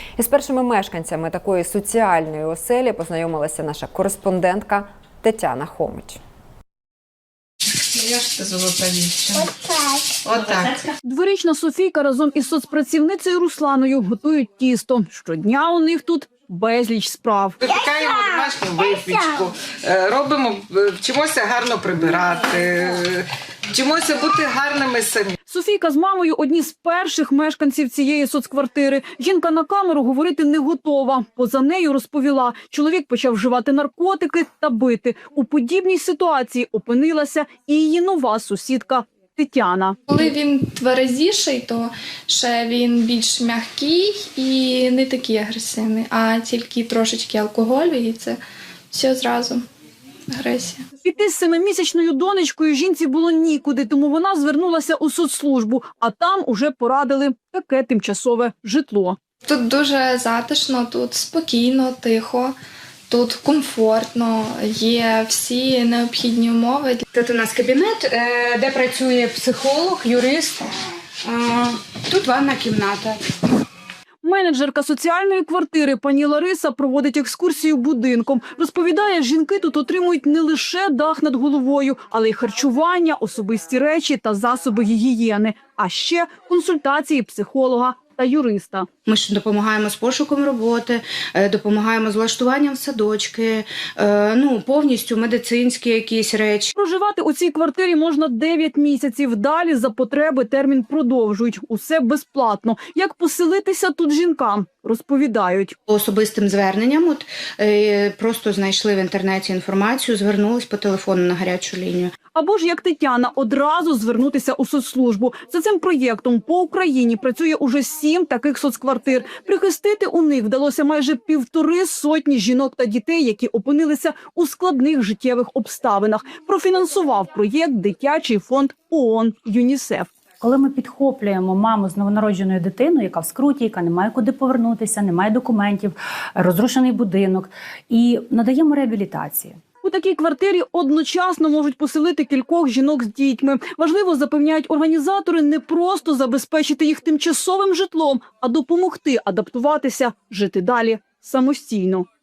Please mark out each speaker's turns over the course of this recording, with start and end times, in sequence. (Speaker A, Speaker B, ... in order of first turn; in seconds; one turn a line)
Speaker A: 0.2-6.2
Speaker B: 7.8-9.6
Speaker B: 10.2-10.8
Speaker C: 11.0-17.6
Speaker B: 17.6-25.4
Speaker C: 25.5-40.0
Speaker D: 40.1-48.4
Speaker D: 48.9-49.6
Speaker D: 50.3-50.9
Speaker C: 51.0-59.2
Speaker D: 59.5-62.5
Speaker D: 63.1-67.0
Speaker E: 67.1-70.7
Speaker E: 71.2-73.2
Speaker C: 74.2-88.9
Speaker E: 89.1-96.7
Speaker C: 96.7-105.8
Speaker E: 105.9-112.1
Speaker C: 112.3-130.1
Speaker F: 130.4-139.6
Speaker C: 139.8-152.1